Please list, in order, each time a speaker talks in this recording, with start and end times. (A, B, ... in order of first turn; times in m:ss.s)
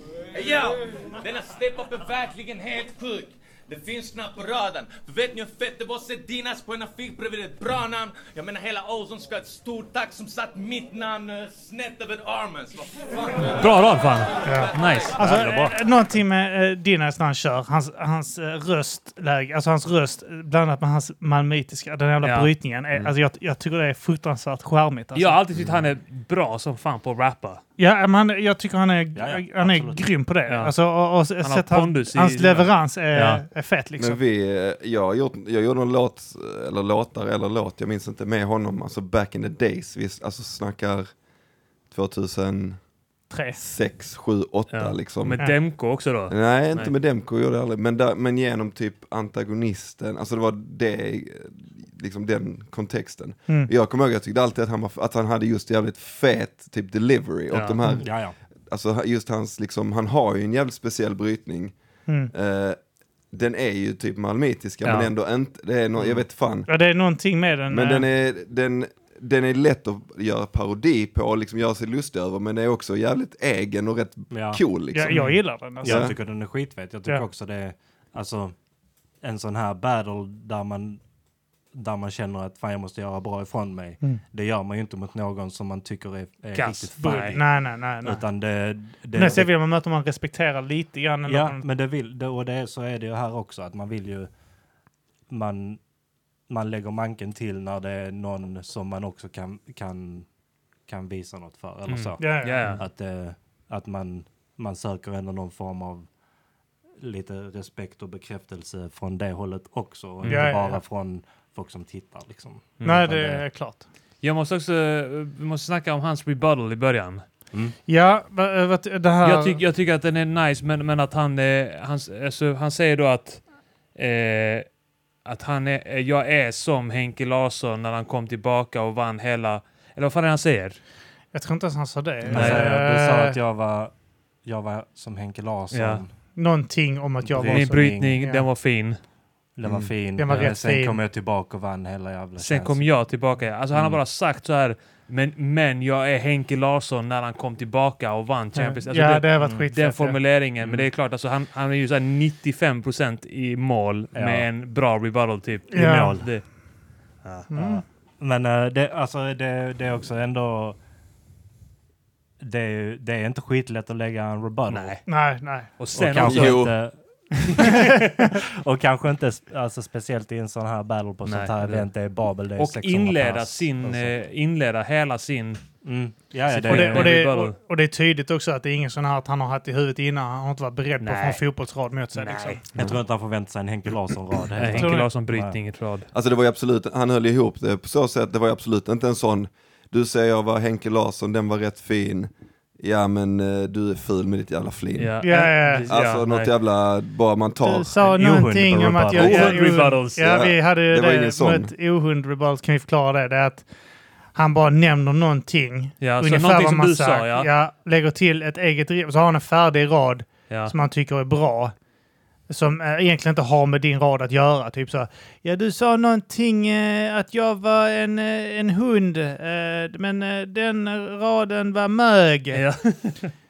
0:00.3-0:15.1 A
0:13.5-0:15.7 B
0:14.4-0:25.4 C
0:15.2-0:15.8 D
0:22.2-0:22.5 B
0:25.2-0:27.6 B
0:25.6-0:25.8 E
0:27.8-0:34.2 C
0:29.2-0:30.0 D
0:30.5-0:30.7 B
0:31.4-0:33.4 B
0:34.0-0:41.1 E
0:41.9-0:42.8 E
0:43.3-0:43.6 C
0:43.6-0:45.7 E
0:44.7-0:46.9 B
0:46.3-1:01.7 E
0:57.5-0:57.8 B
0:58.0-0:58.4 D
1:02.3-1:02.8 E
1:03.3-1:06.7 E
1:04.8-1:05.1 B
1:06.7-1:08.1 C
1:07.7-1:16.2 E
1:14.3-1:18.6 D
1:14.9-1:16.1 C
1:19.2-1:21.0 D
1:21.7-1:27.5 D
1:26.6-1:27.4 B
1:27.0-1:28.2 C
1:28.0-1:29.5 D
1:29.1-1:31.6 C
1:31.3-1:34.3 D
1:35.3-1:35.8 D
1:36.5-1:40.3 D
1:40.9-1:46.1 D
1:41.9-1:42.8 B
1:42.2-1:42.8 C
1:47.0-1:53.4 D
1:50.2-1:50.5 B
1:50.3-1:50.8 C
1:52.8-1:53.0 B
1:52.8-1:53.9 C
1:54.2-1:57.2 B
1:57.9-1:59.6 C
1:59.2-2:03.4 B
2:04.0-2:04.7 B
2:05.2-2:10.8 B
2:11.3-2:13.4 C
2:12.3-2:13.9 D
2:12.3-2:12.8 B
2:14.4-2:16.1 D
2:15.7-2:16.0 B
2:16.4-2:18.5 C
2:17.2-2:18.2 D
2:17.5-2:19.0 B
2:19.6-2:22.9 D
2:19.6-2:19.9 E
2:20.2-2:21.0 C
2:22.4-2:36.4 B
2:28.5-2:30.2 C
2:29.4-2:29.7 D
2:30.6-2:30.9 D
2:34.1-2:34.5 D
2:35.7-2:36.3 C
2:35.8-2:36.1 D
2:37.2-2:37.5 B
2:37.5-2:37.8 C
2:38.2-2:40.8 D
2:42.4-2:45.0 D
2:44.7-2:45.0 B
2:45.1-2:45.7 C
2:45.8-2:46.7 B
2:46.0-2:54.2 D
2:46.2-2:46.8 E
2:47.6-2:48.3 C
2:51.2-2:51.9 B
2:52.6-2:55.6 B
2:55.8-2:57.1 D
2:56.5-2:57.6 B
2:56.7-3:02.6 C
3:01.0-3:01.4 B
3:02.2-3:02.6 B
3:02.8-3:05.6 D
3:04.6-3:06.1 B
3:04.7-3:05.1 C
3:06.1-3:15.2 E
3:15.0-3:16.5 B
3:15.2-3:15.9 C
3:15.9-3:18.0 E
3:17.6-3:23.7 C
3:18.0-3:19.5 D
3:19.2-3:20.3 B
3:19.2-3:21.7 E
3:24.4-3:31.7 C
3:26.0-3:27.5 B
3:32.5-3:42.6 C
3:42.5-3:43.3 B